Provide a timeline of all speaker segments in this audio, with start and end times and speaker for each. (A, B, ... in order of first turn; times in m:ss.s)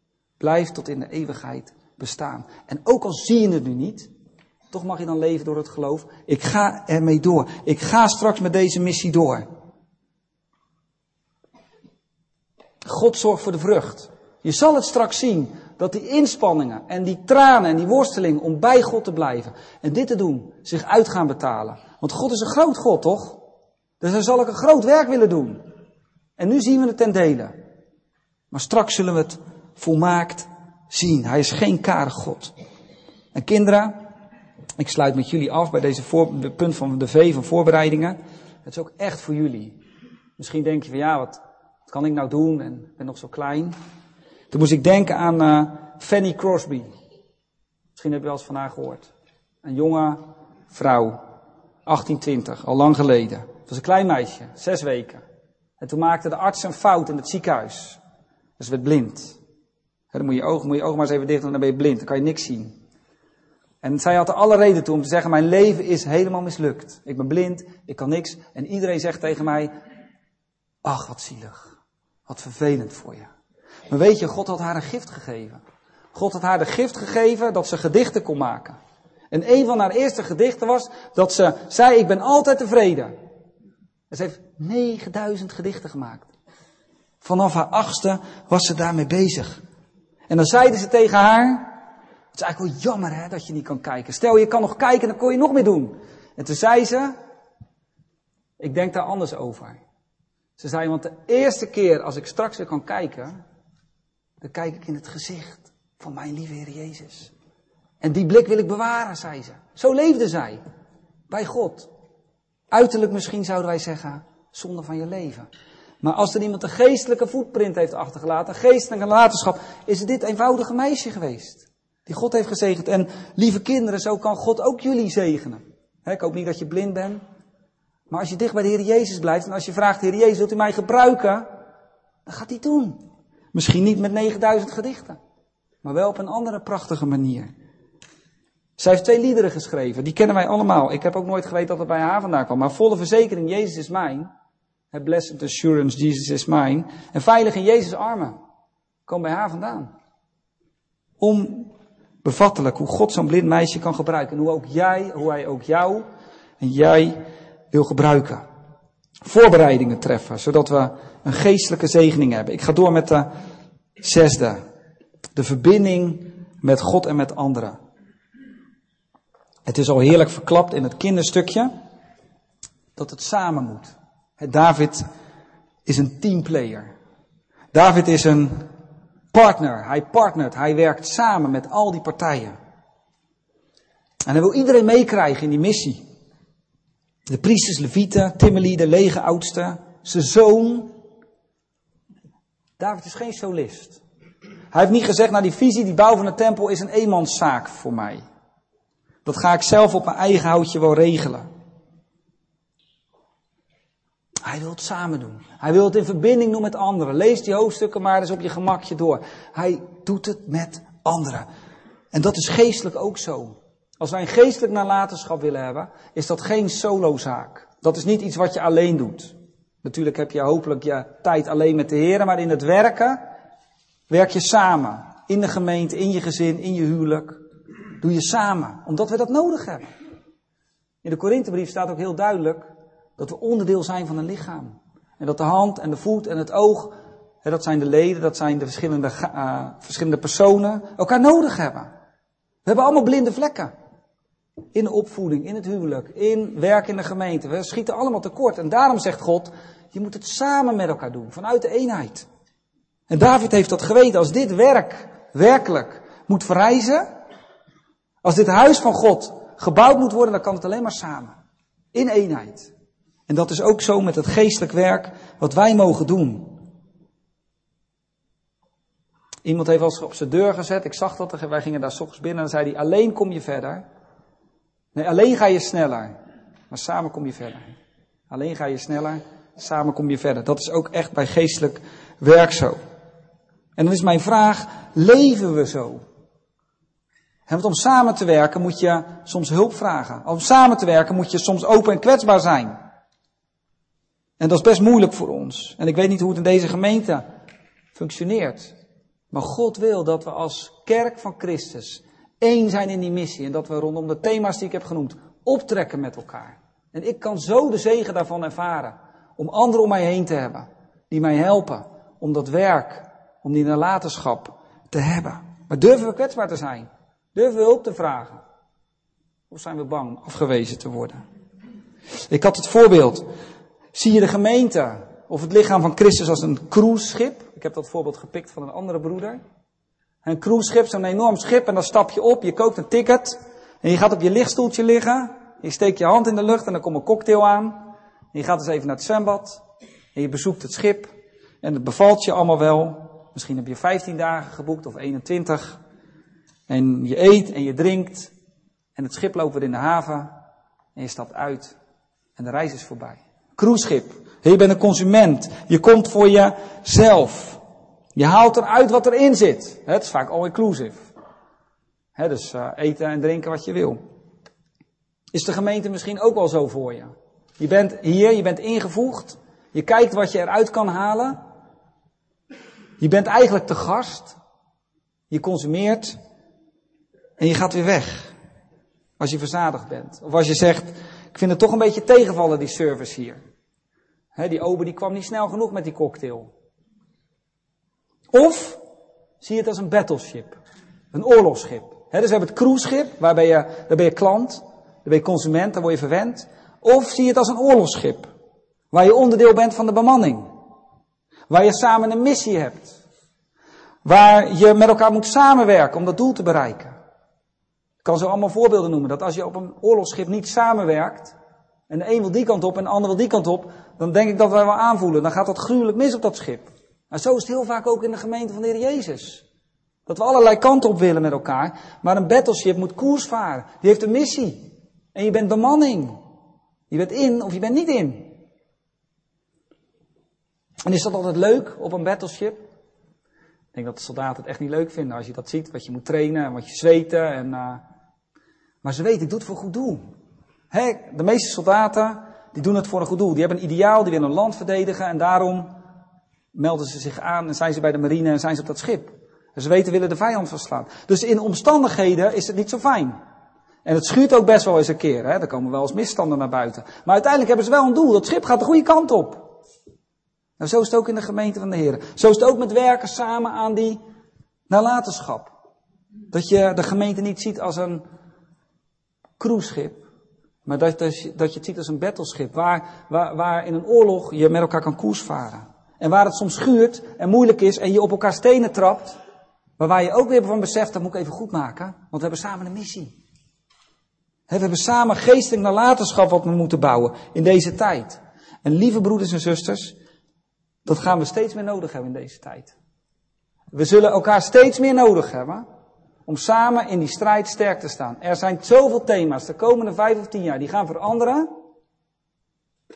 0:00.4-0:04.1 A
0:04.7-0:09.4 A
0:12.8-0:23.4 A
0:24.0-0:25.6 A
0:26.4-0:27.5 A
0:28.5-0:32.5 A
0:33.3-0:34.0 A
0:34.8-0:39.8 A
0:40.4-0:43.8 A
0:44.5-0:46.9 A
0:48.0-0:49.1 A
0:49.6-0:51.2 A
0:51.9-0:55.2 A
0:55.8-0:58.0 A
0:58.6-0:59.4 A
1:00.1-1:02.7 A
1:03.8-1:09.7 A
1:10.8-1:11.8 A
1:12.3-1:13.3 A
1:13.9-1:15.6 A
1:16.1-1:18.8 A
1:19.3-1:23.1 A
1:24.1-1:26.3 A
1:27.2-1:29.6 A
1:30.3-1:31.7 A
1:32.3-1:37.1 A
1:38.6-1:39.8 A
1:40.6-1:43.4 A
1:44.4-1:47.3 A
1:48.0-1:50.6 A
1:51.3-1:51.9 A
1:52.7-1:55.5 A
1:56.0-2:07.2 A
2:08.1-2:11.5 A
2:12.3-2:13.0 A
2:13.5-2:15.2 A
2:15.8-2:17.5 A
2:18.8-2:24.3 A
2:24.9-2:28.4 A
2:29.1-2:29.9 A
2:31.2-2:31.7 A
2:32.2-2:36.0 A
2:36.6-2:37.2 A
2:37.7-2:38.4 A
2:39.2-2:43.3 A
2:44.0-2:44.6 A
2:45.4-2:47.8 A
2:49.7-2:51.7 A
2:53.0-2:55.0 A
2:55.9-2:56.9 A
2:57.7-2:58.6 A
2:59.3-3:02.6 A
3:04.3-3:06.0 A
3:07.3-3:10.9 A
3:12.8-3:14.0 A
3:14.7-3:18.2 A
3:19.2-3:21.5 A
3:24.4-3:31.5 A
3:32.1-3:43.2 A
3:44.1-3:47.4 A
3:48.0-3:49.9 A
3:51.0-4:01.9 A
4:02.6-4:03.7 A
4:04.7-4:12.3 A
4:13.1-4:17.1 A
4:18.2-4:21.4 A
4:21.9-4:22.7 A
4:23.3-4:26.6 A
4:29.4-4:33.8 A
4:35.0-4:36.1 A
4:36.7-4:37.6 A
4:38.3-4:42.8 A
4:43.8-4:46.0 A
4:47.5-4:52.8 A
4:54.4-4:57.2 A
4:57.9-4:58.7 A
4:59.3-5:18.4 A
5:19.5-5:21.2 A
5:22.3-5:23.3 A
5:23.9-5:29.4 A
5:30.2-5:39.6 A
5:40.2-5:45.8 A
5:46.7-5:48.3 A
5:49.0-5:50.3 A
5:51.0-5:51.8 A
5:52.4-5:57.6 A
5:58.2-6:01.1 A
6:02.2-6:04.0 A
6:05.3-6:11.4 A
6:13.0-6:14.4 A
6:15.3-6:16.2 A
6:17.4-6:18.3 A
6:19.2-6:23.4 A
6:24.4-6:26.5 A
6:28.3-6:28.8 A
6:29.4-6:30.6 A
6:31.1-6:38.3 A
6:38.9-6:40.5 A
6:41.5-6:43.0 A
6:44.0-6:47.0 A
6:48.0-6:51.4 A
6:51.9-6:59.4 A
7:00.1-7:06.2 A
7:06.9-7:08.4 A
7:10.8-7:12.6 A
7:13.7-7:17.8 A
7:18.8-7:20.1 A
7:20.7-7:25.7 A
7:26.5-7:33.2 A
7:33.8-7:39.5 A
7:40.6-7:44.0 A
7:44.7-7:45.5 A
7:46.3-7:48.0 A
7:49.4-7:50.0 A
7:50.7-7:59.2 A
7:59.8-8:03.1 A
8:04.5-8:10.0 A
8:10.8-8:12.8 A
8:13.7-8:15.6 A
8:16.3-8:21.5 A